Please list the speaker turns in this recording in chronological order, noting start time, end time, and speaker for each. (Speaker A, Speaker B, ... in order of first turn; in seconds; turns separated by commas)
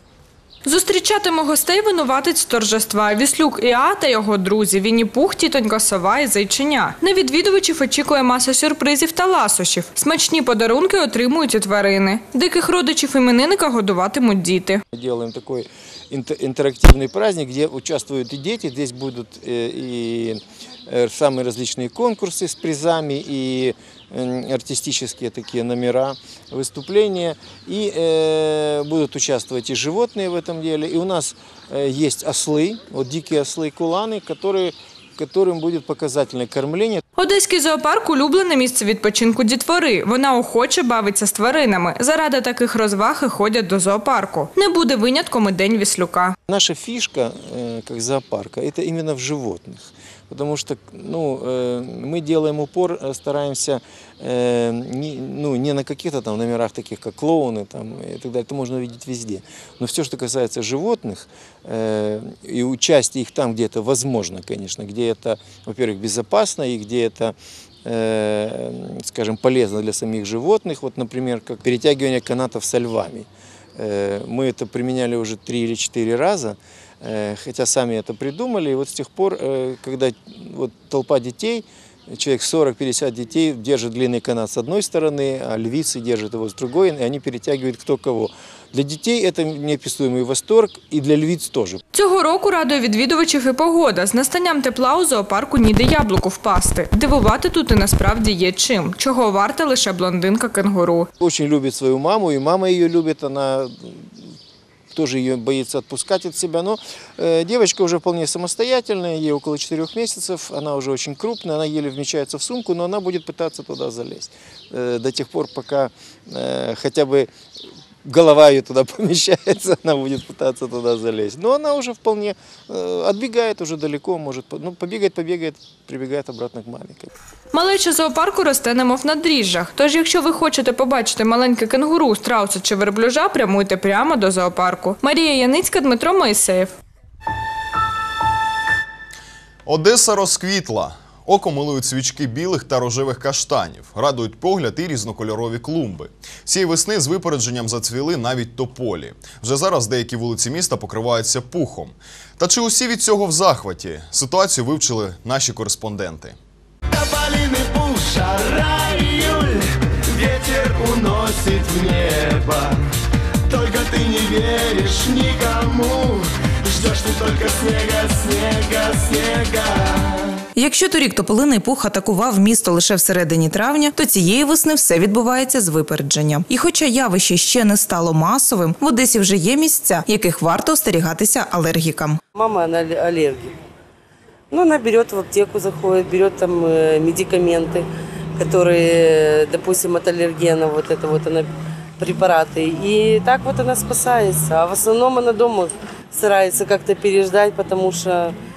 Speaker A: 0.7-14.8, Speaker B: 14.9-37.0, Speaker A: 37.2-46.4, Speaker B: 46.5-91.8, Speaker A: 91.9-101.1, Speaker B: 101.2-104.1, Speaker B: 104.9-117.3, Speaker B: 118.0-127.1, Speaker A: 127.5-136.8, Speaker C: 139.7-156.4, Speaker D: 156.9-162.8, Speaker D: 163.5-170.4, Speaker E: 170.6-182.2, Speaker F: 182.3-183.6, Speaker F: 184.5-198.3